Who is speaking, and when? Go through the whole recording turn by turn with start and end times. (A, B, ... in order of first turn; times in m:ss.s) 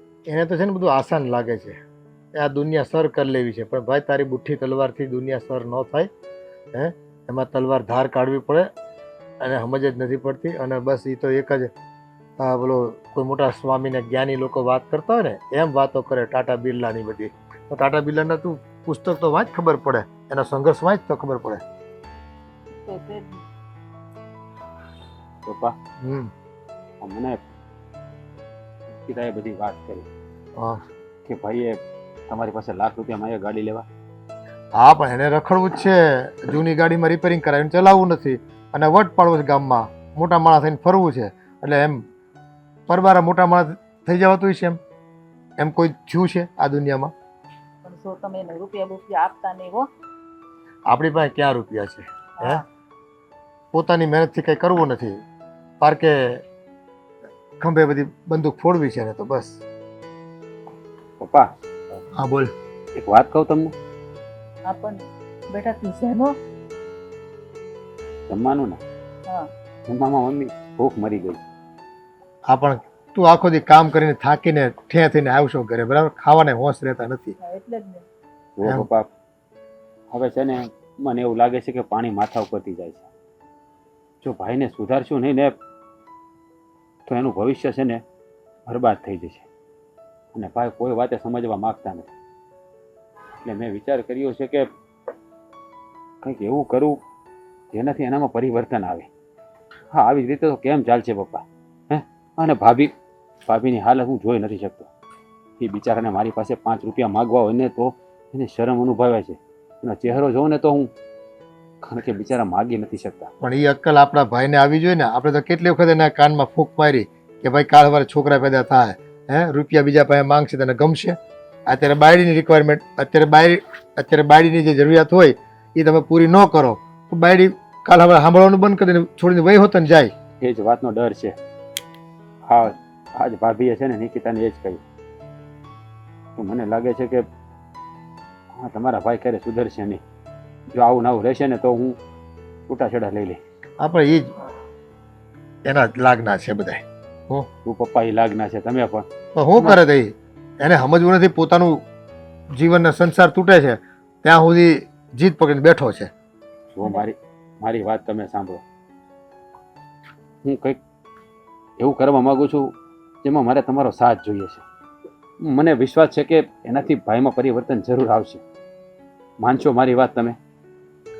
0:00.3-0:01.8 A
0:02.4-0:06.1 A
0:06.7-0:08.7 A
0:09.4-0:11.7 A
0:12.4-0:21.6 A
0:22.8-0:23.4 B
0:25.4-0:25.7 C
0:26.0-0:26.3 A
0:27.0-0:27.4 C
0:28.9-0:30.1 C
0:31.3-0:31.8 C
0:32.3-0:33.9 C
0:34.7-0:42.1 A
0:42.9-0:44.8 A
0:45.6-0:47.1 A
0:47.8-0:49.9 B
0:50.9-0:52.6 A
0:52.4-0:52.6 B
0:53.7-0:55.2 A
0:55.8-0:56.4 A
0:57.6-0:59.6 A
1:01.2-1:02.0 C
1:02.2-1:02.5 A
1:03.0-1:03.7 C
1:04.7-1:06.3 B
1:08.3-1:08.8 C
1:09.9-1:11.5 C
1:12.5-1:17.3 A
1:17.4-1:18.0 B
1:18.6-1:19.1 C
1:20.1-1:23.1 C
1:24.2-1:25.5 C
1:27.1-1:28.0 C
1:28.7-1:29.5 C
1:30.3-1:32.1 C
1:33.4-1:34.7 C
1:36.2-1:37.0 C
1:37.7-1:39.1 C
1:39.9-1:42.9 C
1:43.5-1:44.9 C
1:45.6-1:50.9 C
1:51.8-1:53.3 C
1:53.4-2:01.2 A
2:01.7-2:10.1 A
2:10.4-2:11.4 C
2:12.5-2:14.8 C
2:16.4-2:17.2 C
2:18.6-2:20.0 C
2:20.7-2:22.0 C
2:22.7-2:23.4 C
2:23.8-2:24.3 A
2:25.7-2:27.5 A
2:27.6-2:29.1 C
2:29.4-2:31.8 A
2:32.5-2:36.1 A
2:36.7-2:38.6 C
2:40.4-2:40.8 C
2:41.8-2:44.6 C
2:45.4-2:48.4 C
2:49.4-2:50.4 C